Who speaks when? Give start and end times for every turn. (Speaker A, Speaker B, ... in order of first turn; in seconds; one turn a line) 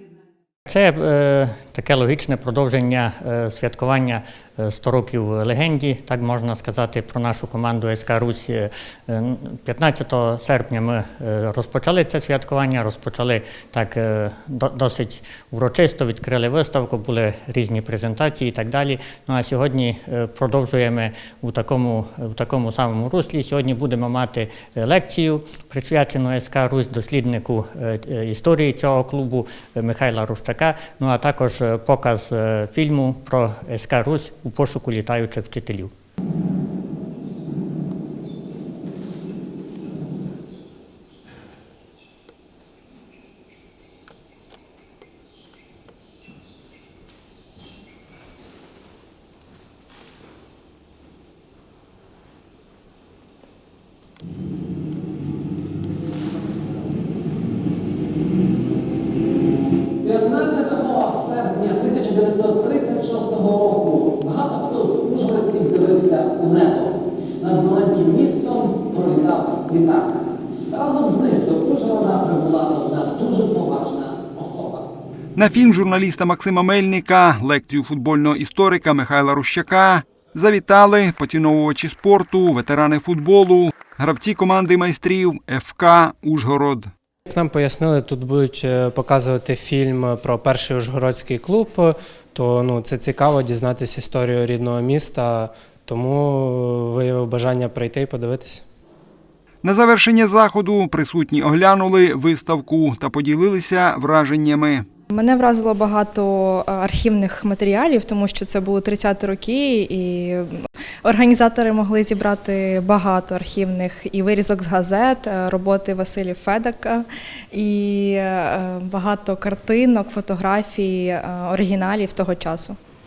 Speaker A: 0.7-35.9
Speaker B: 60.0-74.8
Speaker C: 75.4-86.9
Speaker D: 87.3-98.6
Speaker C: 99.6-104.8
Speaker E: 105.1-122.8